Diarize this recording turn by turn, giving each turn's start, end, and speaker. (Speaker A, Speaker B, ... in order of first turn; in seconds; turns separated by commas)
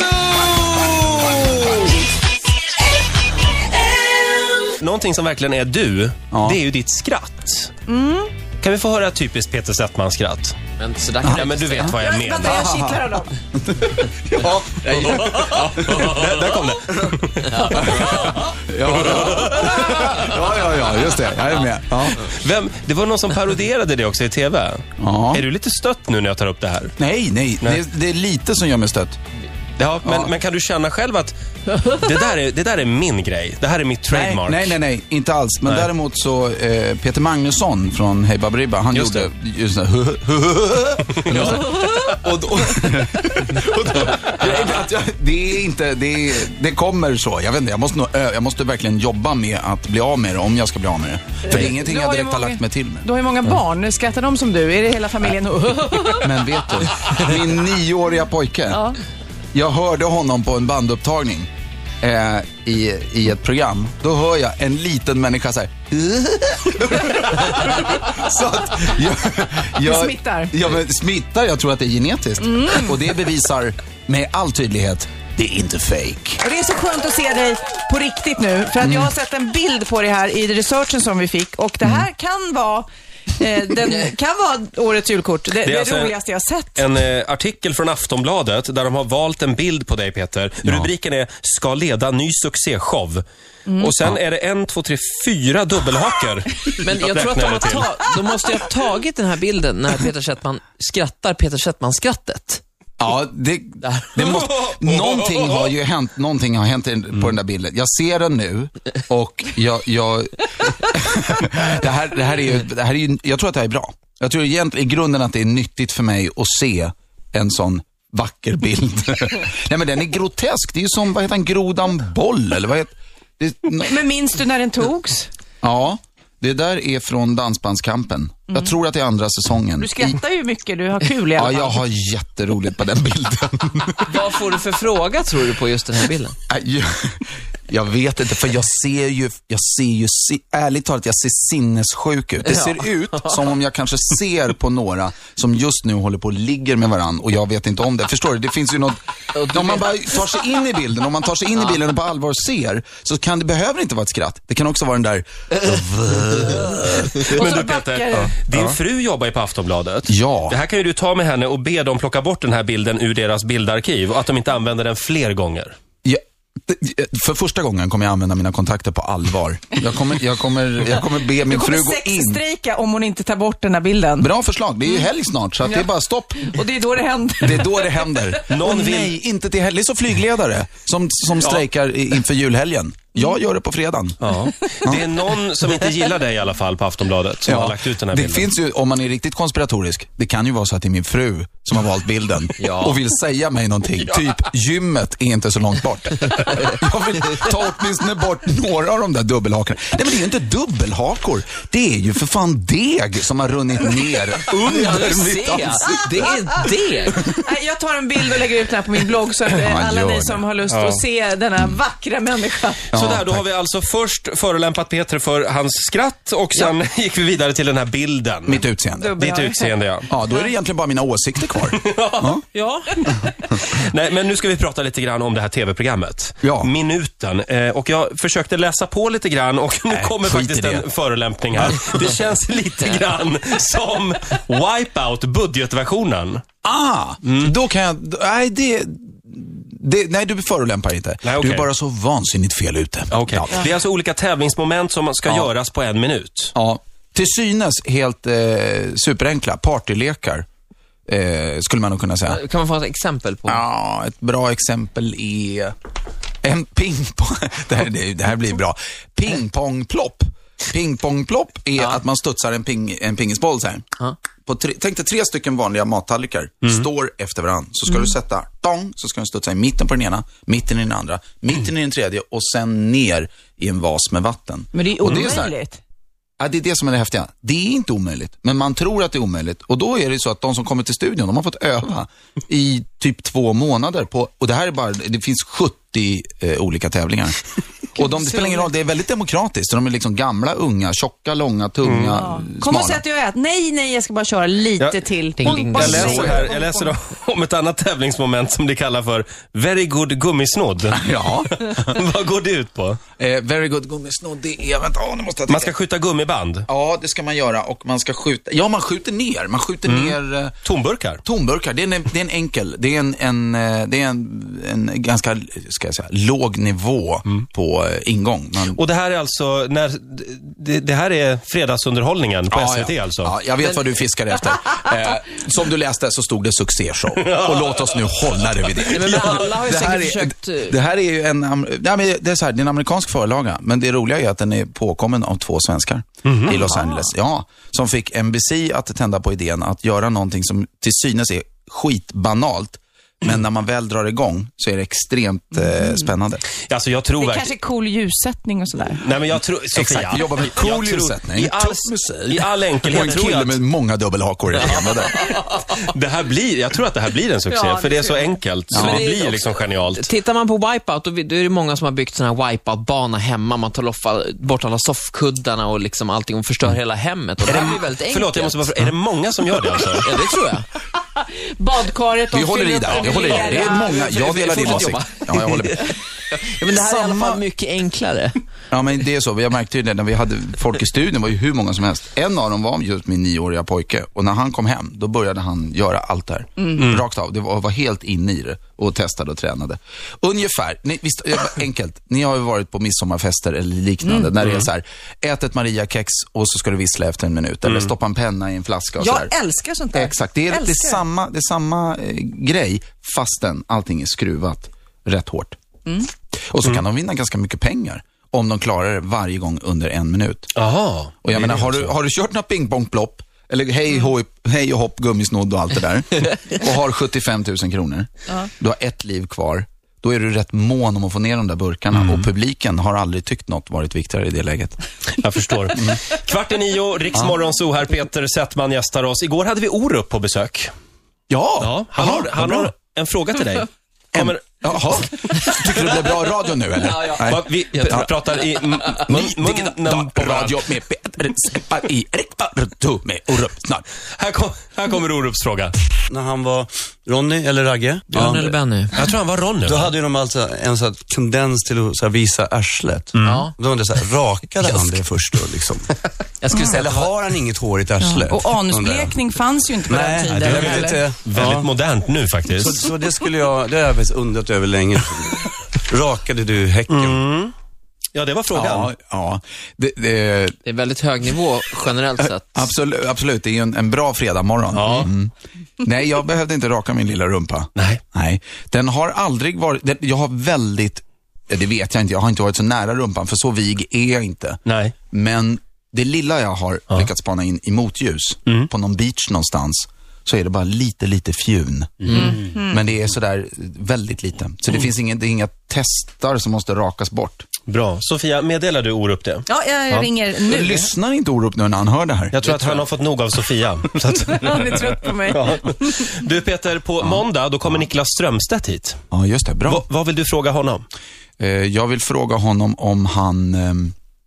Speaker A: 0.5-1.8, Speaker B: 4.8-7.7, Speaker A: 6.3-6.6, Speaker C: 7.9-8.3, Speaker B: 8.6-10.6, Speaker D: 10.8-12.0, Speaker A: 11.2-11.9, Speaker B: 11.3-12.6, Speaker C: 12.0-13.3, Speaker A: 12.4-17.2, Speaker B: 14.9-18.4, Speaker D: 17.5-18.1, Speaker A: 17.7-22.3, Speaker B: 18.9-20.3, Speaker B: 22.1-26.9, Speaker A: 25.0-25.4, Speaker A: 27.0-29.2, Speaker B: 29.8-34.8, Speaker A: 30.0-30.3, Speaker A: 34.1-53.1, Speaker B: 38.9-39.3, Speaker B: 41.2-41.6, Speaker C: 51.5-56.4, Speaker A: 56.1-58.9, Speaker C: 58.7-59.0, Speaker A: 59.5-61.5, Speaker A: 62.0-76.4, Speaker C: 69.8-70.5, Speaker C: 72.4-73.0, Speaker C: 76.4-86.9, Speaker A: 78.8-79.1, Speaker B: 85.6-86.2, Speaker B: 86.7-93.2, Speaker C: 93.7-94.0, Speaker B: 93.8-98.0, Speaker D: 96.8-102.6, Speaker A: 103.0-124.0, Speaker D: 103.8-104.2, Speaker B: 104.2-105.7, Speaker C: 123.8-125.3, Speaker A: 125.6-130.2, Speaker C: 129.8-131.8, Speaker A: 131.3-134.2, Speaker D: 134.1-136.4, Speaker A: 136.5-157.3, Speaker D: 142.4-143.4, Speaker D: 149.3-149.9, Speaker B: 156.9-165.8, Speaker C: 157.3-158.3, Speaker A: 160.1-160.6, Speaker A: 166.0-172.4, Speaker C: 171.5-174.3, Speaker A: 174.2-176.5, Speaker C: 175.6-178.1, Speaker A: 177.4-184.2, Speaker B: 178.5-179.2, Speaker B: 184.2-188.5, Speaker A: 187.5-207.4, Speaker D: 192.6-193.0, Speaker D: 204.6-207.2, Speaker C: 207.3-212.9, Speaker A: 209.6-210.5, Speaker B: 210.7-211.0, Speaker A: 212.9-213.4, Speaker B: 212.9-218.7, Speaker A: 218.5-219.2, Speaker C: 219.0-220.5, Speaker B: 219.2-220.1, Speaker A: 220.1-222.4, Speaker B: 221.6-222.3, Speaker D: 222.5-223.1, Speaker B: 223.6-236.4, Speaker A: 226.4-226.7, Speaker A: 229.9-230.9, Speaker A: 236.6-243.7, Speaker B: 237.2-237.5, Speaker B: 241.2-241.7, Speaker B: 243.1-246.5, Speaker A: 246.6-250.4, Speaker A: 251.1-252.4, Speaker D: 252.3-253.6, Speaker A: 253.5-255.8, Speaker A: 256.4-263.9, Speaker D: 261.8-262.0, Speaker A: 264.4-275.6, Speaker C: 274.7-275.8, Speaker A: 276.4-287.4, Speaker A: 287.9-293.0, Speaker C: 288.0-288.7, Speaker B: 291.8-292.2, Speaker C: 292.1-296.9, Speaker B: 294.8-303.0, Speaker D: 295.4-296.4, Speaker A: 300.9-302.0, Speaker A: 303.2-305.7, Speaker B: 305.5-306.7, Speaker A: 306.7-310.6, Speaker B: 309.9-311.2, Speaker A: 311.2-318.8, Speaker B: 318.7-323.3, Speaker A: 322.5-346.4, Speaker B: 327.2-328.1, Speaker B: 328.7-329.5, Speaker D: 328.9-330.8, Speaker B: 336.2-336.6, Speaker C: 345.5-346.1, Speaker B: 346.7-347.6, Speaker C: 347.2-349.1, Speaker B: 349.0-353.6, Speaker A: 349.7-355.1, Speaker D: 354.6-355.6, Speaker B: 355.8-360.1, Speaker C: 357.5-358.4, Speaker A: 358.7-359.1, Speaker D: 358.7-369.0, Speaker B: 367.5-370.1, Speaker D: 369.8-370.7, Speaker C: 371.0-374.0, Speaker A: 372.3-376.0, Speaker D: 372.9-378.4, Speaker A: 376.5-377.4, Speaker A: 378.7-399.3, Speaker B: 386.8-387.0, Speaker C: 394.0-394.3, Speaker B: 394.4-394.7, Speaker B: 397.6-397.9, Speaker C: 399.0-401.0, Speaker A: 399.9-405.6, Speaker A: 406.5-410.5, Speaker B: 410.6-411.9, Speaker A: 411.2-424.8, Speaker B: 421.9-422.3, Speaker B: 425.2-430.7, Speaker A: 425.8-426.0, Speaker A: 431.3-432.7, Speaker B: 431.6-434.6, Speaker A: 434.1-438.1, Speaker B: 435.5-436.1, Speaker D: 436.8-438.0, Speaker B: 437.2-440.6, Speaker A: 439.1-443.9, Speaker B: 444.2-445.7, Speaker E: 446.1-448.8, Speaker D: 448.1-449.0, Speaker B: 448.9-449.9, Speaker E: 449.6-455.9, Speaker B: 453.1-453.5, Speaker D: 453.2-453.6, Speaker D: 456.4-457.1, Speaker E: 456.5-459.3, Speaker C: 456.5-456.8, Speaker C: 458.0-461.1, Speaker E: 459.9-461.7, Speaker B: 460.4-462.9, Speaker E: 462.4-467.2, Speaker B: 466.9-467.5, Speaker B: 468.1-468.9, Speaker A: 468.5-470.6, Speaker D: 470.7-472.7, Speaker A: 472.2-484.6, Speaker B: 474.7-475.1, Speaker B: 477.8-478.0, Speaker B: 484.7-484.9, Speaker A: 485.1-497.5, Speaker B: 492.0-492.4, Speaker C: 492.1-492.8, Speaker B: 497.7-500.1, Speaker C: 499.5-500.9, Speaker A: 500.4-502.8, Speaker B: 502.3-509.0, Speaker C: 504.3-506.1, Speaker A: 507.0-507.9, Speaker A: 509.1-509.9, Speaker B: 509.7-510.9, Speaker A: 511.4-514.0